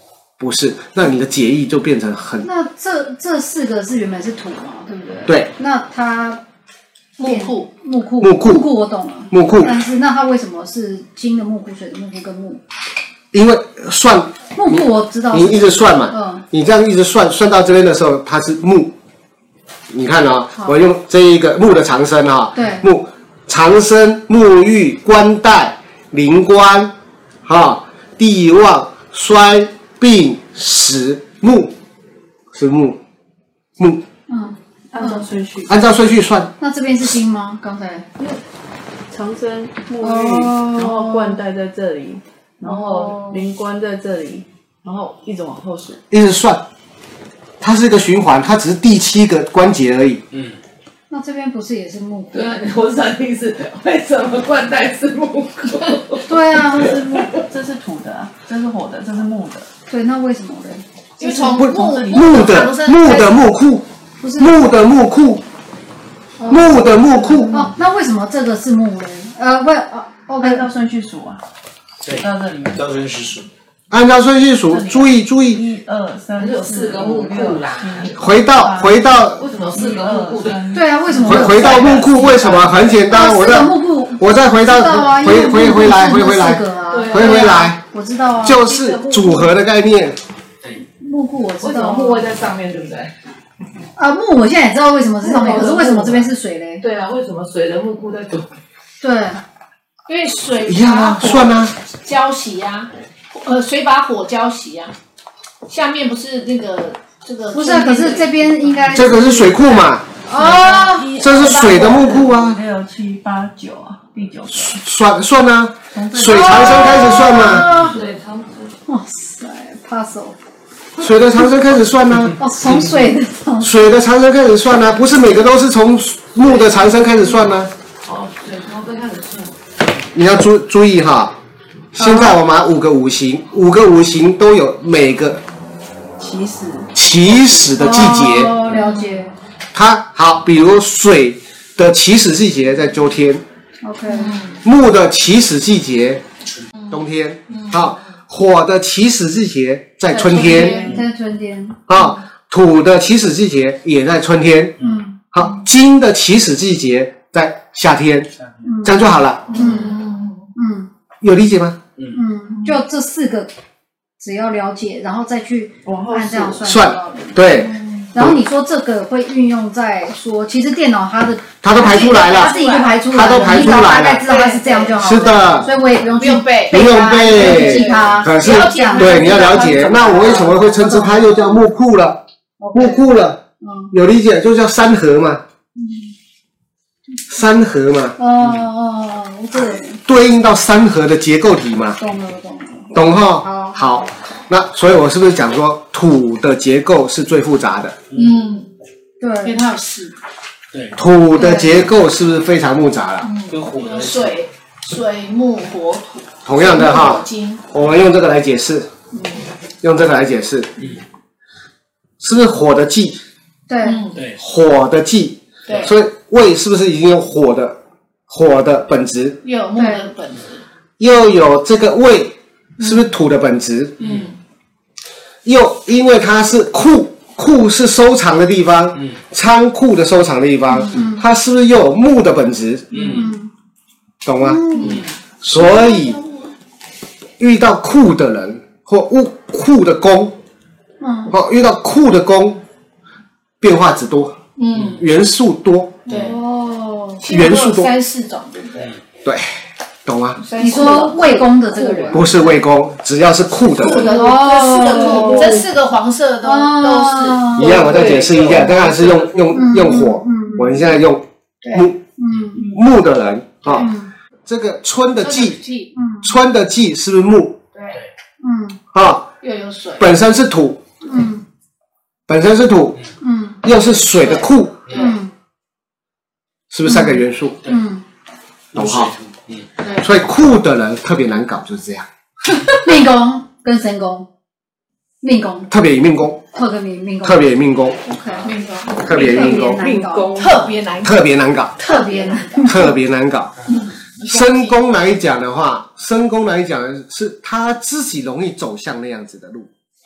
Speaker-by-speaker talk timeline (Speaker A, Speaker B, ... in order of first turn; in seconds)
Speaker A: 0.4-2.5, 5.3-5.5, 8.2-8.7, 9.3-9.7, 13.3-18.9, 19.9-26.9, 27.4-31.7, 32.5-33.0, 35.7-36.5, 46.1-46.6, 47.6-50.2, 61.6-63.8, 64.4-65.4, 66.5-67.5, 73.9-75.6, 78.1-79.4, 81.2-87.8, 88.4-90.2, 100.7-101.7, 108.9-110.0, 111.2-112.6, 114.5-117.8, 121.0-122.7, 123.6-127.7, 130.1-131.4, 131.9-135.4, 136.9-138.6, 139.7-143.4, 144.6-146.2, 146.9-151.0, 151.9-154.8, 155.3-158.3, 158.8-159.6, 161.2-161.8, 166.6-168.4, 171.6-174.3, 175.0-175.7, 176.7-182.2, 182.7-183.4, 183.9-185.4, 187.3-188.2, 190.0-192.0, 192.9-198.0, 200.9-203.3, 206.4-208.9, 209.8-210.9, 212.2-213.2, 214.3-217.8, 218.3-219.4, 221.0-224.1, 225.4-233.2, 234.2-234.6, 235.4-236.2, 237.4-240.3, 241.3-242.6, 243.6-244.4, 244.9-246.2, 247.2-247.9, 250.1-250.4, 252.1-254.2, 257.6-262.0, 262.6-263.9, 264.5-265.6, 266.2-267.6, 268.9-269.3, 270.0-270.8, 272.3-273.0, 273.6-274.9, 276.7-277.6, 278.7-279.2, 280.0-282.0, 285.7-286.4, 287.2-288.0, 289.0-289.7, 291.0-291.8, 292.6-293.5, 294.2-299.7
Speaker B: 2.4-6.4, 7.2-12.6, 14.5-16.4, 22.5-22.8, 34.3-35.3, 36.6-38.0, 40.0-41.4, 51.1-52.6, 56.2-57.3, 59.9-61.6, 64.2-64.6, 66.4-66.9, 67.5-70.7, 80.7-81.9, 83.1-88.7, 91.0-92.3, 94.0-96.8, 99.0-99.4, 107.5-111.2, 116.2-118.0, 118.9-120.4, 122.4-123.7, 132.0-132.4, 137.8-139.3, 143.8-144.3, 150.1-151.8, 154.8-155.2, 158.6-159.9, 160.5-160.9, 162.1-163.5, 164.2-181.7, 182.6-183.9, 188.2-190.0, 192.0-193.8, 199.2-199.6, 201.3-201.8, 213.7-214.0, 219.8-220.1, 230.7-231.2, 233.0-233.5, 234.4-235.0, 241.0-241.3, 246.1-247.2, 250.6-252.5, 254.1-255.5, 256.4-257.9, 259.5-260.8, 262.2-262.7, 263.6-264.1, 265.9-266.3, 268.4-268.8, 271.0-271.4, 273.2-273.6, 274.9-275.3, 276.8-278.0, 282.5-284.3, 285.2-285.7, 286.5-290.4, 291.8-292.9
Speaker C: 7.2-7.7, 61.2-63.4, 100.1-104.9, 105.7-109.0, 111.2-112.2, 171.7-180.6, 185.8-186.1, 199.4-200.1, 203.2-207.6, 213.8-214.2, 219.4-220.6, 222.8-223.1, 234.7-235.1, 235.6-236.5, 244.6-245.0, 246.1-246.3, 247.2-248.9, 250.4-252.2, 253.8-258.3, 265.2-265.9, 267.7-268.0, 269.4-270.1, 274.1-275.2, 279.8-280.1, 288.4-289.1, 290.3-291.2, 291.8-292.9, 293.7-294.8
Speaker D: 34.9-35.7, 39.1-46.0, 56.8-59.7, 61.3-62.6, 67.4-67.7, 70.4-71.4, 72.1-73.0, 74.7-81.7, 110.3-114.8, 115.9-117.5, 136.2-136.9, 150.3-150.9, 165.8-166.6
Speaker E: 42.6-43.4, 44.9-45.5, 52.3-57.3, 76.4-78.3, 79.4-83.0, 86.9-87.7, 89.0-89.4, 91.6-93.1, 95.2-96.3, 96.8-98.5, 117.5-118.8, 126.4-126.9, 128.0-129.5, 138.7-139.2, 144.1-144.6, 146.8-148.0, 159.5-160.5, 167.6-168.1, 198.2-198.7, 232.9-233.2, 253.8-255.6, 257.7-259.7, 289.1-290.7
Speaker F: 72.8-73.4, 203.5-204.2, 278.8-279.6